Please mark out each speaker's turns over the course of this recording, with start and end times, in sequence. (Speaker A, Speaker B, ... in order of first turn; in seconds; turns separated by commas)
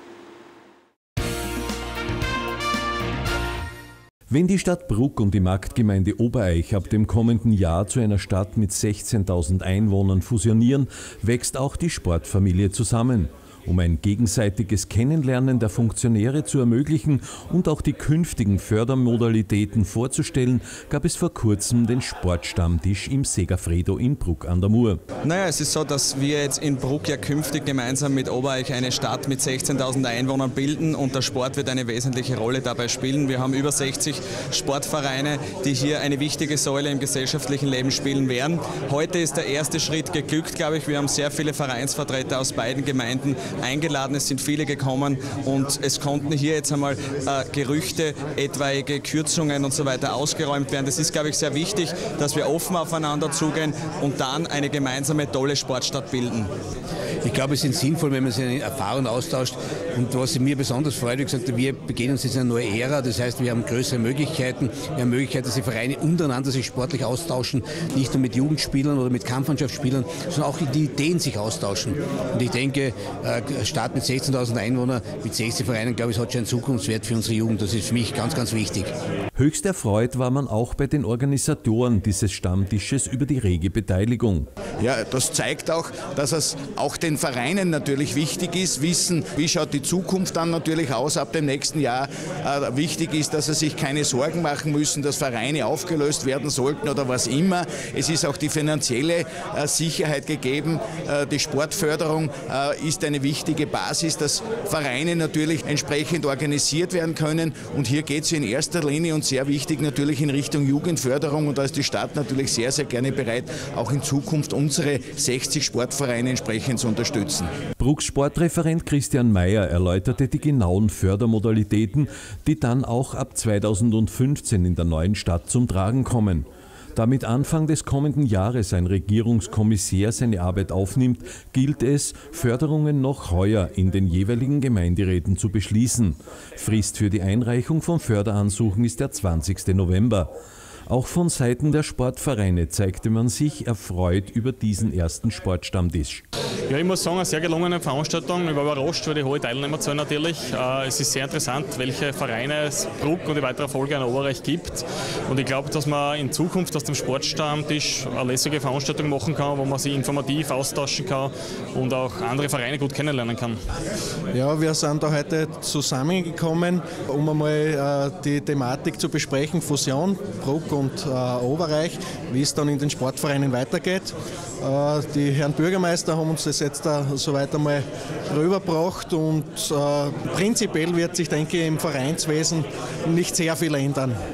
Speaker A: 4.3-25.0, Speaker B: 25.2-56.5, Speaker C: 57.2-78.9, Speaker A: 79.4-84.5, Speaker D: 84.8-117.5, Speaker A: 117.8-140.3, Speaker A: 140.9-146.2, Speaker E: 146.7-163.6, Speaker F: 164.3-184.2